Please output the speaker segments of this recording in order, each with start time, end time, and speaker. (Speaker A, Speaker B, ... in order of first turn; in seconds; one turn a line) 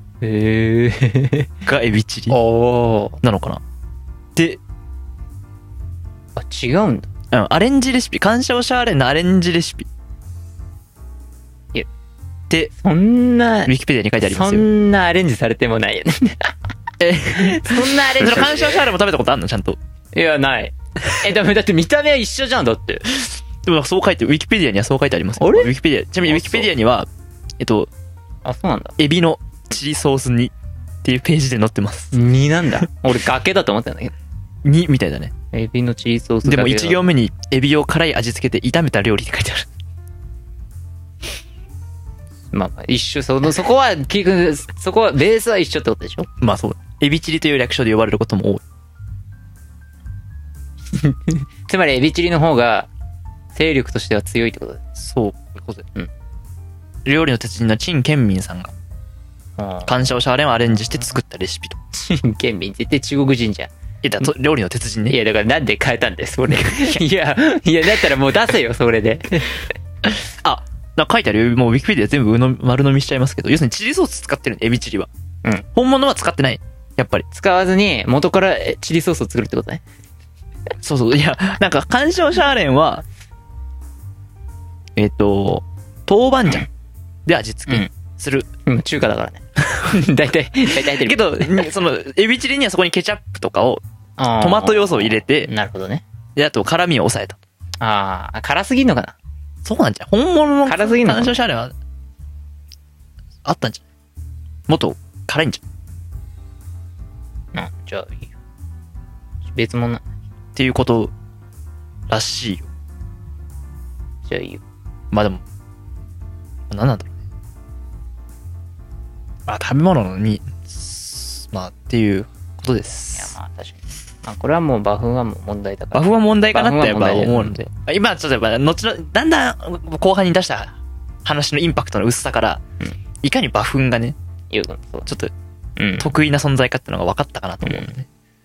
Speaker A: 0.2-1.5
Speaker B: 1.6-2.4
Speaker A: 2.3-3.2
Speaker B: 3.2-3.6
Speaker B: 4.3-4.6
Speaker A: 6.4-7.1
Speaker B: 7.3-9.9
Speaker A: 12.8-16.5
Speaker B: 13.7-14.7
Speaker B: 17.0-19.8
Speaker A: 17.3-18.8
Speaker A: 20.1-23.1
Speaker B: 23.6-27.9
Speaker A: 25.4-25.7
Speaker A: 28.4-29.0
Speaker B: 29.0-32.1
Speaker A: 32.1-34.1
Speaker B: 34.6-35.3
Speaker A: 35.5-37.0
Speaker B: 36.5-39.7
Speaker A: 42.5-46.3
Speaker B: 46.4-48.6
Speaker A: 50.9-52.9
Speaker A: 53.5-54.8
Speaker B: 55.0-55.9
Speaker B: 57.0-58.7
Speaker A: 59.6-59.9
Speaker B: 59.9-61.8
Speaker A: 61.9-63.7
Speaker B: 64.0-65.2
Speaker A: 65.1-69.6
Speaker B: 66.7-67.0
Speaker B: 70.4-75.1
Speaker B: 75.7-77.2
Speaker A: 77.3-79.8
Speaker B: 80.8-83.0
Speaker B: 85.0-86.7
Speaker B: 87.3-88.5
Speaker A: 88.7-91.7
Speaker B: 90.7-93.8
Speaker A: 94.2-96.0
Speaker B: 94.3-95.5
Speaker B: 96.4-97.4
Speaker A: 97.8-99.2
Speaker B: 99.7-101.7
Speaker A: 100.7-101.4
Speaker B: 103.5-103.8
Speaker B: 104.7-105.6
Speaker A: 107.5-108.3
Speaker A: 109.5-110.0
Speaker B: 110.6-111.1
Speaker B: 112.1-112.7
Speaker A: 114.2-114.6
Speaker B: 115.1-115.4
Speaker B: 116.7-117.2
Speaker B: 119.5-123.3
Speaker A: 123.2-127.5
Speaker B: 125.9-132.6
Speaker B: 133.2-134.2
Speaker A: 134.5-135.1
Speaker B: 135.1-135.3
Speaker A: 135.8-136.1
Speaker B: 136.0-138.1
Speaker A: 137.7-137.9